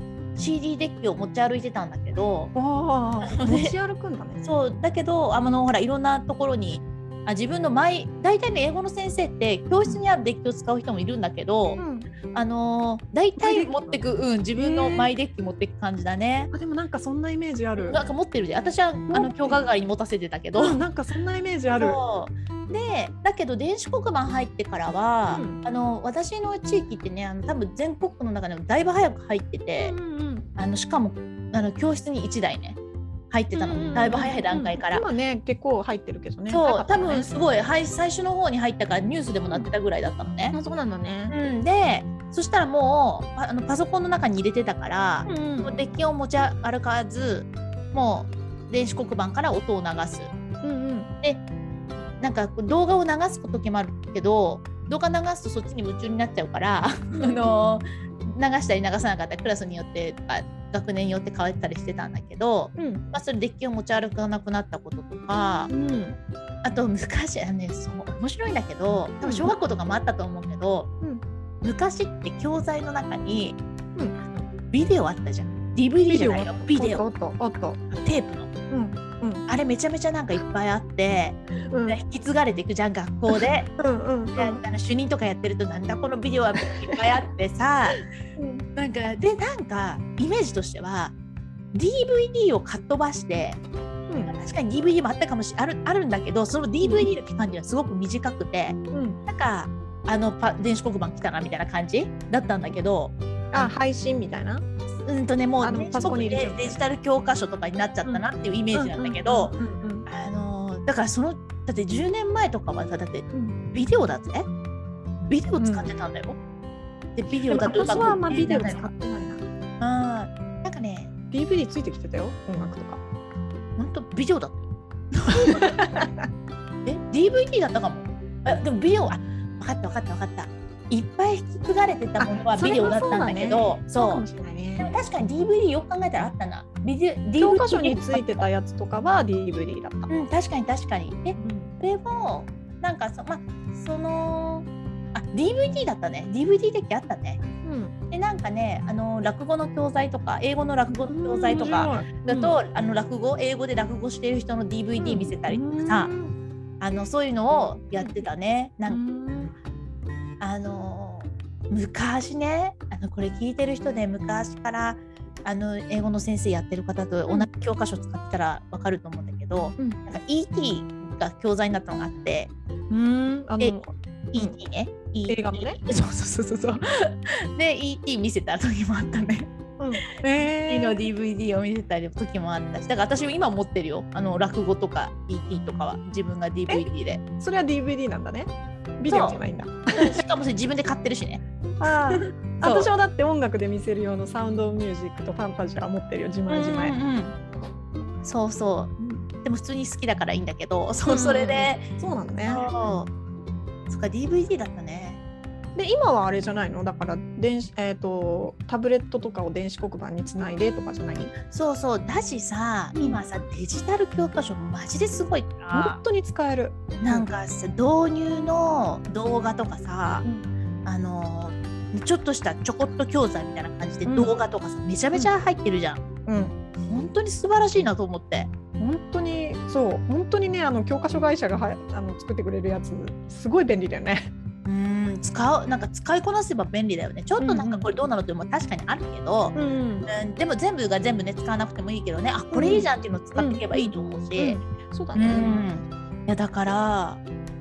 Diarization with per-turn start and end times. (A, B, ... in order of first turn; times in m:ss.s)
0:00.4-0:02.5 A
0:02.5-0:04.4 B
0:03.2-0:03.7 A
0:04.4-0:11.8 A
0:11.8-0:12.1 B
0:12.3-0:16.5 A
0:13.4-0:14.0 B
0:14.6-0:15.1 B
0:16.5-0:18.0 B
0:17.8-0:20.8 A
0:19.1-0:19.6 B
0:20.5-0:22.0 B
0:21.8-0:30.0 A
0:25.3-0:25.6 B
0:29.8-0:30.5 B
0:30.6-0:32.8 A
0:33.3-0:35.1 A
0:33.5-0:37.3 B
0:36.5-0:40.5 A
0:40.5-0:41.4 B
0:41.3-0:50.3 A
0:45.2-0:45.7 B
0:50.6-0:51.1 B
0:52.2-1:05.7 A
0:57.2-0:57.5 B
1:02.8-1:03.0 B
1:05.7-1:06.2 B
1:06.6-1:10.9 A
1:09.2-1:09.5 B
1:11.6-1:13.6 A
1:14.0-1:14.4 B
1:14.7-1:17.0 A
1:16.1-1:17.8 B
1:17.9-1:18.5 A
1:18.7-1:19.5 B
1:19.5-1:23.7 A
1:21.7-1:22.0 B
1:23.3-1:24.6 B
1:24.4-1:28.0 A
1:26.6-1:27.1 B
1:28.4-1:28.6 B
1:28.8-1:31.1 A
1:31.7-1:33.6 A
1:34.1-1:34.4 B
1:34.3-1:43.7 A
1:36.8-1:37.1 B
1:38.9-1:39.2 B
1:43.5-1:44.6 B
1:45.0-1:49.6 A
1:45.6-1:46.8 B
1:48.0-1:50.1 B
1:50.1-1:54.5 A
1:55.2-1:56.4 A
1:55.6-1:55.9 B
1:57.2-1:58.9 A
1:57.3-1:59.4 B
1:59.8-2:01.1 A
2:01.3-2:03.0 B
2:03.8-2:05.8 A
2:05.3-2:06.3 B
2:06.8-2:14.2 A
2:12.2-2:14.9 B
2:14.8-2:18.5 A
2:17.4-2:20.1 B
2:20.1-2:27.4 A
2:21.4-2:21.7 B
2:27.6-2:27.9 B
2:28.1-2:36.1 A
2:30.9-2:32.5 B
2:35.0-2:36.3 B
2:36.8-2:39.0 A
2:38.0-2:38.2 B
2:38.9-2:39.5 B
2:40.4-2:52.5 A
2:52.9-2:54.6 B
2:54.3-2:59.5 A
2:55.3-2:55.8 B
2:59.8-3:01.0 B
3:00.6-3:07.2 A
3:07.4-3:10.2 B
3:09.1-3:09.4 A
3:10.0-3:11.4 A
3:11.8-3:17.0 B
3:12.1-3:12.9 A
3:16.5-3:17.4 A
3:18.2-3:21.9 A
3:19.0-3:19.2 B
3:21.0-3:22.7 B
3:22.5-3:23.1 A
3:23.9-3:25.2 A
3:25.8-3:31.3 B
3:31.5-3:36.0 A
3:33.0-3:33.2 B
3:35.7-3:37.3 B
3:37.0-3:40.2 A
3:40.8-3:46.0 A
3:44.1-3:44.4 B
3:46.3-3:46.6 B
3:46.9-3:48.5 A
3:48.8-3:54.3 B
3:54.6-3:59.6 A
3:57.4-3:57.9 B
3:59.5-4:00.1 B
4:00.1-4:04.6 A
4:02.5-4:05.6 B
4:05.2-4:07.2 A